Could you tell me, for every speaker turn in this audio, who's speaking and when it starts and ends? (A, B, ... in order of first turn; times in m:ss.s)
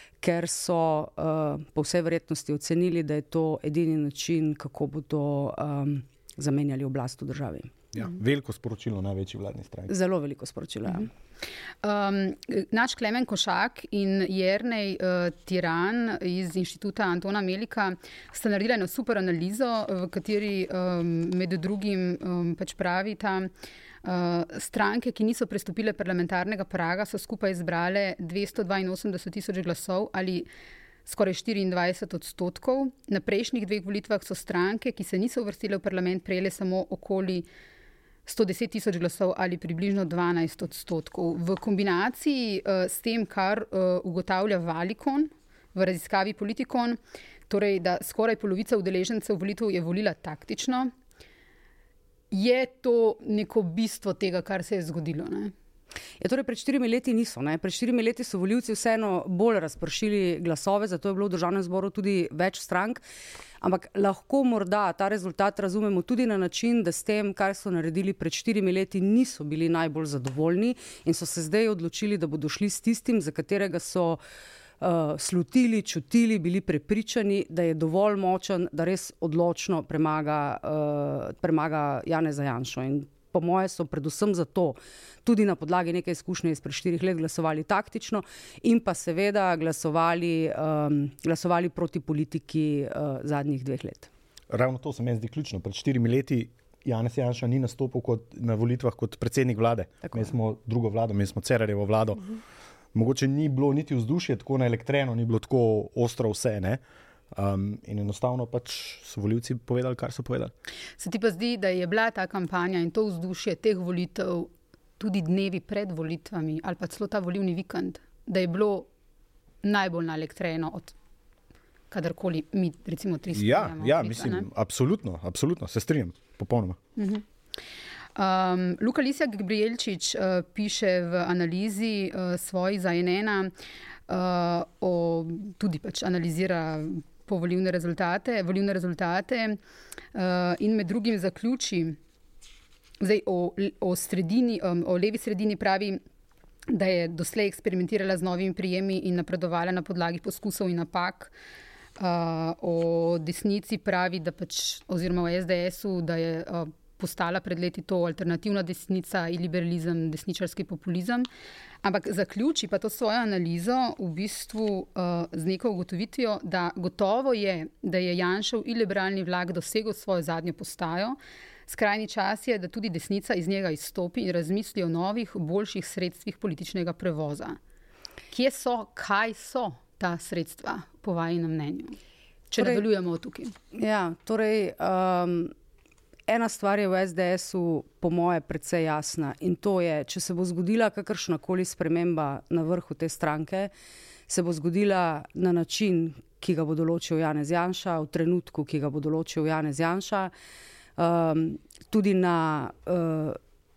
0:00.2-0:07.7 A
0:07.9-0:09.9 B
0:09.9-0:11.1 A
0:11.8-0:23.5 C
0:24.0-0:30.5 C
0:31.0-0:37.5 C
0:38.3-0:50.9 C
0:52.3-0:55.5 C
0:56.2-1:03.0 A
1:03.6-1:14.2 A
1:14.8-1:34.1 A
1:34.5-1:42.3 B
1:42.9-1:46.8 B
1:47.3-1:50.5 B
1:51.0-1:58.9 C
1:59.6-2:00.9 C
2:01.9-2:04.5 C
2:03.3-2:06.8 B
2:07.0-2:07.2 C
2:08.2-2:13.5 C
2:14.1-2:19.6 C
2:20.1-2:22.0 C
2:23.0-2:26.0 C
2:26.7-2:31.3 C
2:32.0-2:41.3 C
2:41.8-2:57.6 C
2:58.3-3:02.0 C
3:02.5-3:03.5 C
3:03.7-3:05.5 A
3:06.3-3:13.7 A
3:14.3-3:20.3 A
3:21.0-3:23.4 A